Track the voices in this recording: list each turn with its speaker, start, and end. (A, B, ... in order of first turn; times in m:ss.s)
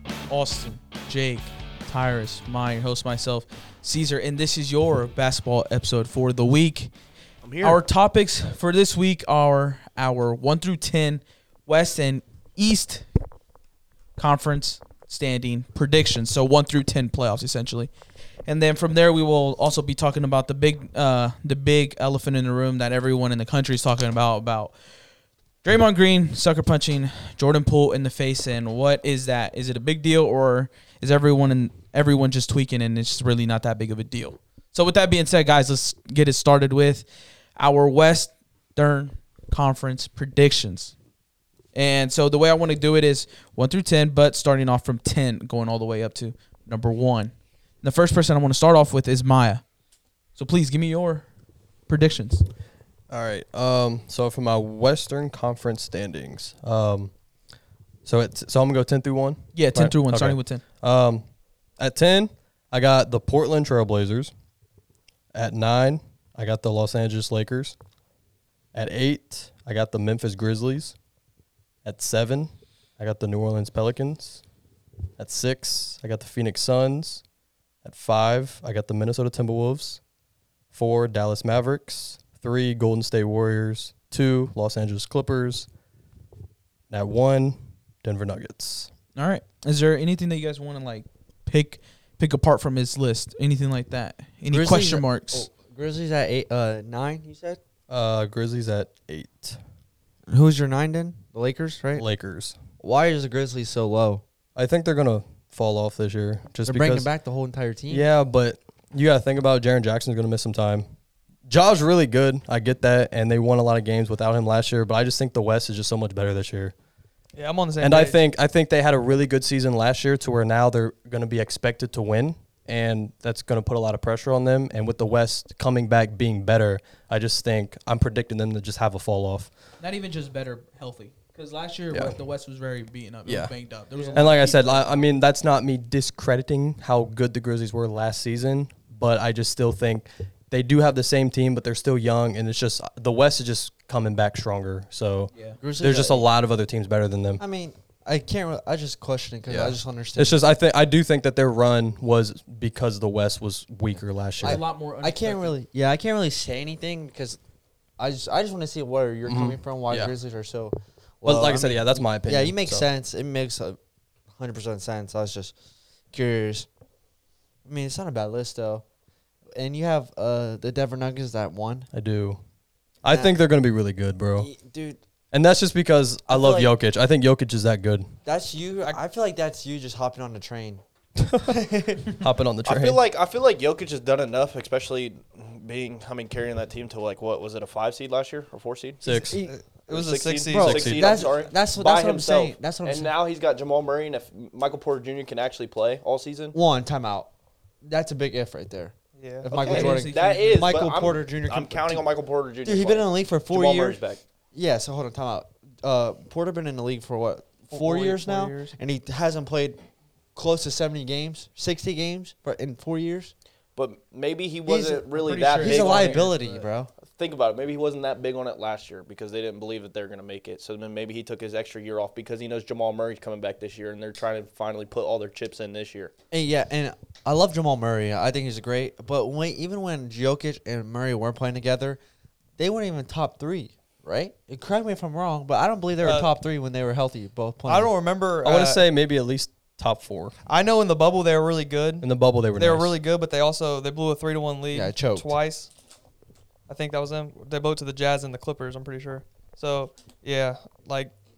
0:00.3-0:06.9 A
0:07.4-0:07.8 B
0:07.6-0:13.0 A
0:14.2-0:17.9 A
0:18.5-0:24.8 A
0:25.6-0:40.9 A
0:41.8-0:49.6 A
0:50.4-0:51.2 A
0:51.9-0:52.4 A
0:53.1-0:57.1 C
0:58.0-1:01.2 C
0:59.6-1:00.6 A
1:01.8-1:04.3 C
1:05.3-1:07.8 C
1:08.7-1:11.0 C
1:11.8-1:14.4 C
1:15.2-1:17.2 C
1:17.8-1:20.0 C
1:20.7-1:25.7 C
1:26.9-1:28.9 C
1:29.2-1:35.5 A
1:34.5-1:37.6 D
1:37.9-1:39.6 C
1:40.3-1:42.1 D
1:42.0-1:42.6 C
1:42.8-1:44.2 D
1:44.6-1:47.1 C
1:46.6-1:48.1 D
1:47.9-1:50.8 C
1:51.5-1:56.7 C
1:57.4-1:58.2 E
1:57.8-2:09.5 C
2:09.8-2:15.0 A
2:13.3-2:13.5 C
2:14.1-2:27.4 C
2:25.3-2:25.6 A
2:25.6-2:26.3 D
2:27.4-2:30.4 D
2:29.5-2:34.6 C
2:34.4-2:35.6 A
2:34.4-2:37.4 D
2:38.0-2:43.8 D
2:39.3-2:40.1 C
2:41.2-2:42.9 C
2:44.3-2:45.6 D
2:46.1-2:46.7 D
2:47.6-2:48.8 D
2:49.5-2:51.9 D
2:51.9-2:52.4 C
2:53.0-2:54.5 C
2:54.4-2:55.0 D
2:55.3-2:58.1 C
2:56.3-2:56.7 D
2:58.3-3:00.8 D
3:01.2-3:03.0 C
3:01.5-3:02.1 E
3:02.7-3:09.0 B
3:09.0-3:09.4 C
3:09.1-3:10.9 E
3:09.3-3:09.6 D
3:09.9-3:16.6 B
3:10.5-3:13.1 D
3:10.6-3:11.2 C
3:16.5-3:17.3 D
3:17.8-3:22.0 D
3:19.2-3:19.5 E
3:19.5-3:24.2 B
3:19.6-3:20.7 A
3:22.6-3:24.0 D
3:24.5-3:29.8 D
3:27.7-3:28.7 E
3:30.4-3:33.3 D
3:33.8-3:36.4 B
3:34.7-3:35.1 D
3:35.2-3:36.6 A
3:35.6-3:36.9 D
3:37.1-3:46.1 B
3:46.3-3:52.0 D
3:52.6-3:57.9 D
3:56.0-3:56.3 E
3:57.7-3:58.8 E
3:58.4-4:00.3 C
4:00.5-4:05.7 E
4:02.0-4:02.9 C
4:04.7-4:05.4 D
4:06.7-4:11.1 E